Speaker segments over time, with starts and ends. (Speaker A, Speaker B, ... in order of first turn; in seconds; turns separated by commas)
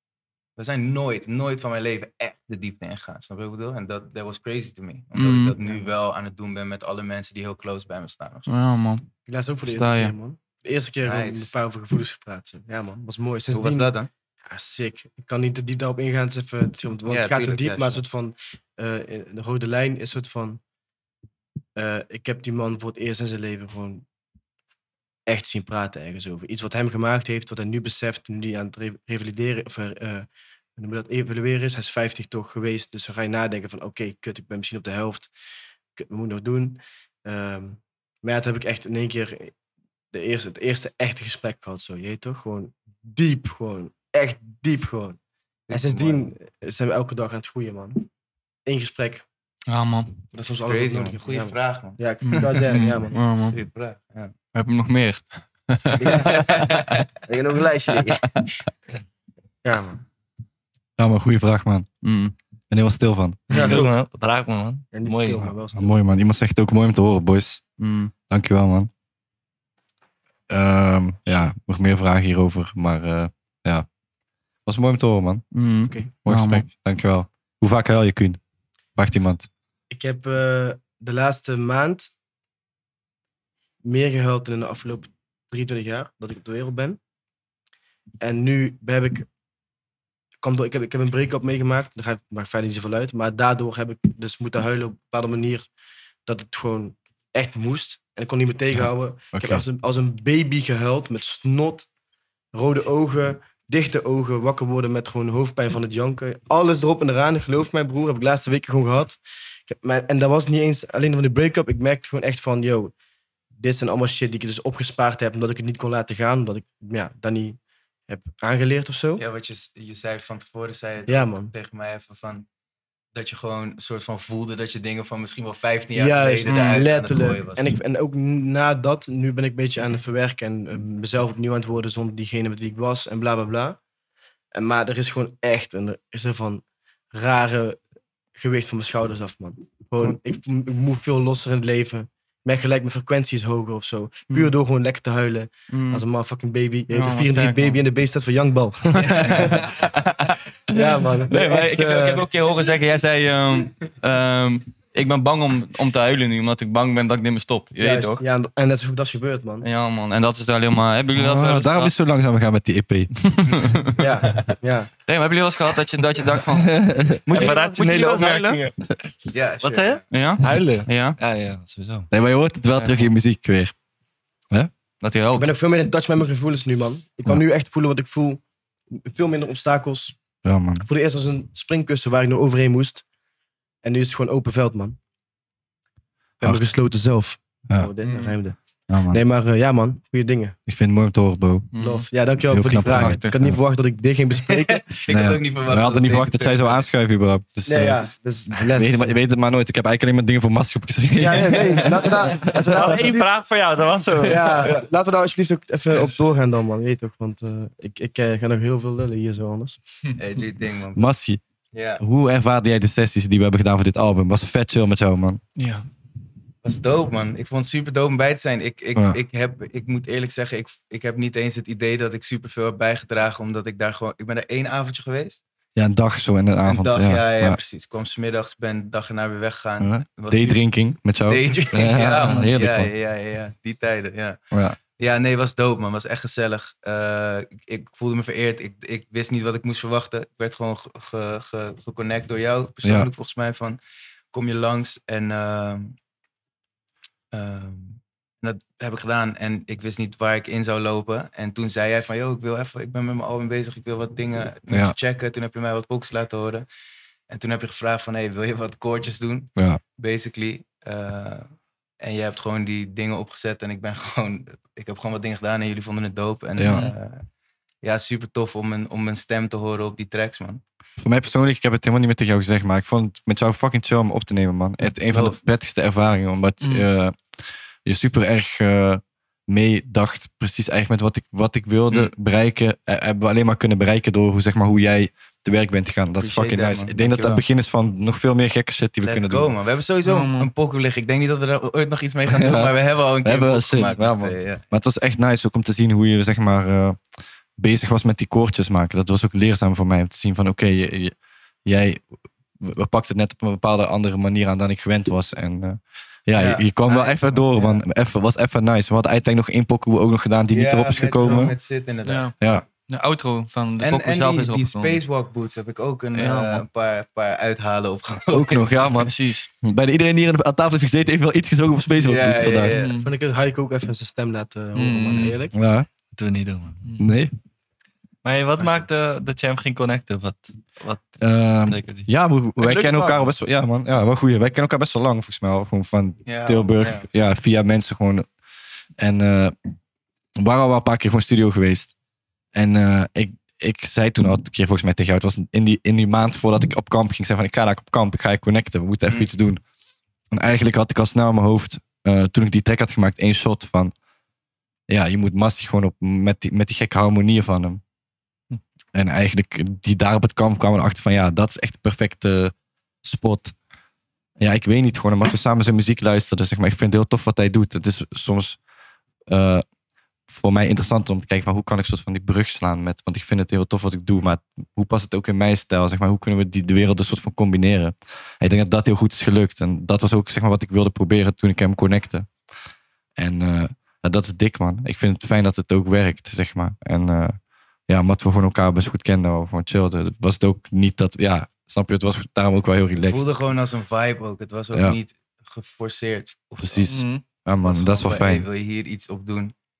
Speaker A: 0.6-8.5, Speaker B: 5.2-5.8, Speaker B: 8.5-9.1, Speaker C: 9.2-13.9, Speaker B: 9.7-10.1, Speaker A: 11.0-11.5, Speaker A: 13.5-14.1, Speaker C: 14.4-20.6, Speaker A: 17.1-18.0, Speaker C: 21.8-24.0, Speaker C: 25.3-35.3, Speaker C: 36.0-39.5, Speaker C: 40.1-45.2, Speaker A: 45.7-46.3, Speaker C: 45.7-48.0, Speaker C: 48.6-49.2, Speaker B: 49.7-50.1, Speaker C: 50.3-53.1, Speaker A: 50.6-52.9, Speaker B: 52.2-53.6, Speaker A: 53.5-54.3, Speaker B: 54.5-57.0, Speaker C: 56.0-56.3, Speaker A: 56.1-57.0, Speaker C: 57.3-58.2, Speaker C: 59.6-60.0, Speaker D: 61.0-61.9, Speaker B: 62.0-62.3, Speaker D: 62.7-63.4, Speaker C: 63.5-63.9, Speaker E: 63.5-65.5, Speaker C: 64.9-65.9, Speaker D: 65.7-67.6, Speaker B: 67.8-68.1, Speaker D: 68.3-68.9, Speaker D: 70.5-73.9, Speaker D: 74.7-75.4, Speaker B: 75.5-76.7, Speaker D: 76.2-78.4, Speaker D: 79.0-79.5, Speaker C: 79.9-82.1, Speaker C: 83.8-87.0, Speaker C: 88.2-89.3, Speaker C: 90.4-95.7, Speaker C: 96.2-101.9, Speaker D: 99.3-99.6, Speaker C: 102.5-112.9, Speaker C: 113.5-119.2, Speaker A: 119.2-122.5, Speaker C: 121.1-121.5, Speaker A: 123.1-127.7, Speaker C: 125.9-133.8, Speaker B: 126.5-126.8, Speaker C: 134.5-137.8, Speaker C: 138.3-149.6, Speaker B: 145.7-146.0, Speaker B: 146.9-147.8, Speaker B: 149.0-158.2, Speaker C: 150.7-152.3, Speaker C: 157.8-159.7, Speaker B: 159.6-161.9, Speaker D: 161.1-163.1, Speaker B: 163.3-164.0, Speaker C: 164.0-164.9, Speaker A: 164.2-164.5, Speaker B: 165.1-168.6, Speaker D: 166.8-167.1, Speaker E: 167.1-168.9, Speaker A: 169.3-170.0, Speaker E: 169.6-172.1, Speaker B: 170.1-171.2, Speaker D: 172.1-173.7, Speaker B: 172.8-173.1, Speaker B: 175.0-175.5, Speaker C: 175.3-180.2, Speaker D: 180.4-180.9, Speaker C: 180.8-183.0, Speaker C: 183.8-185.0, Speaker C: 186.4-188.6, Speaker B: 188.1-188.3, Speaker D: 188.9-189.2, Speaker C: 189.1-190.6, Speaker D: 190.7-191.7, Speaker B: 191.7-192.1, Speaker C: 191.8-194.8, Speaker D: 192.5-193.4, Speaker B: 192.7-193.4, Speaker A: 194.5-196.9, Speaker D: 195.1-198.0, Speaker C: 197.7-199.1, Speaker D: 198.6-202.1, Speaker C: 201.2-203.3, Speaker E: 202.5-204.8, Speaker C: 204.2-209.8, Speaker A: 210.2-211.1, Speaker D: 210.9-211.4, Speaker A: 211.7-212.0, Speaker D: 212.0-215.4, Speaker B: 215.6-215.9, Speaker A: 216.6-225.4, Speaker D: 225.8-227.6, Speaker A: 226.6-230.6, Speaker D: 229.8-232.9, Speaker A: 231.2-243.8, Speaker D: 234.5-234.8, Speaker D: 242.8-243.1, Speaker A: 244.3-245.9, Speaker A: 247.3-256.7, Speaker D: 254.7-254.9, Speaker A: 257.3-261.5, Speaker A: 262.0-267.2, Speaker D: 266.6-266.8, Speaker B: 266.6-266.9, Speaker A: 267.8-270.6, Speaker D: 271.0-277.1, Speaker A: 275.1-275.4, Speaker B: 276.6-276.9, Speaker D: 277.8-289.5, Speaker A: 286.2-287.4, Speaker A: 289.0-294.6, Speaker B: 290.0-290.5, Speaker D: 292.3-297.0, Speaker D: 297.6-302.0, Speaker D: 302.6-311.6, Speaker A: 306.3-307.8, Speaker A: 310.5-312.5, Speaker B: 312.0-312.3, Speaker D: 312.4-312.6, Speaker B: 312.9-315.0, Speaker A: 313.8-318.9, Speaker B: 316.1-316.6, Speaker D: 318.3-322.7, Speaker B: 318.9-319.5, Speaker A: 322.0-323.0, Speaker B: 322.7-323.1, Speaker C: 323.0-325.5, Speaker B: 324.7-325.4, Speaker D: 325.5-325.9, Speaker E: 326.1-326.8, Speaker D: 327.0-327.3, Speaker E: 328.2-332.1, Speaker D: 331.2-338.3, Speaker E: 332.6-333.2, Speaker B: 332.6-333.2, Speaker A: 336.2-337.1, Speaker D: 339.0-339.5, Speaker D: 340.4-341.9, Speaker D: 342.5-349.6, Speaker D: 350.3-353.9, Speaker D: 354.9-357.8, Speaker D: 358.9-362.5, Speaker D: 363.0-363.6, Speaker D: 364.4-368.6, Speaker D: 369.3-369.6, Speaker D: 370.3-382.3, Speaker D: 383.2-393.2, Speaker A: 393.0-396.9, Speaker D: 396.6-398.4, Speaker B: 396.9-397.2, Speaker A: 397.6-399.5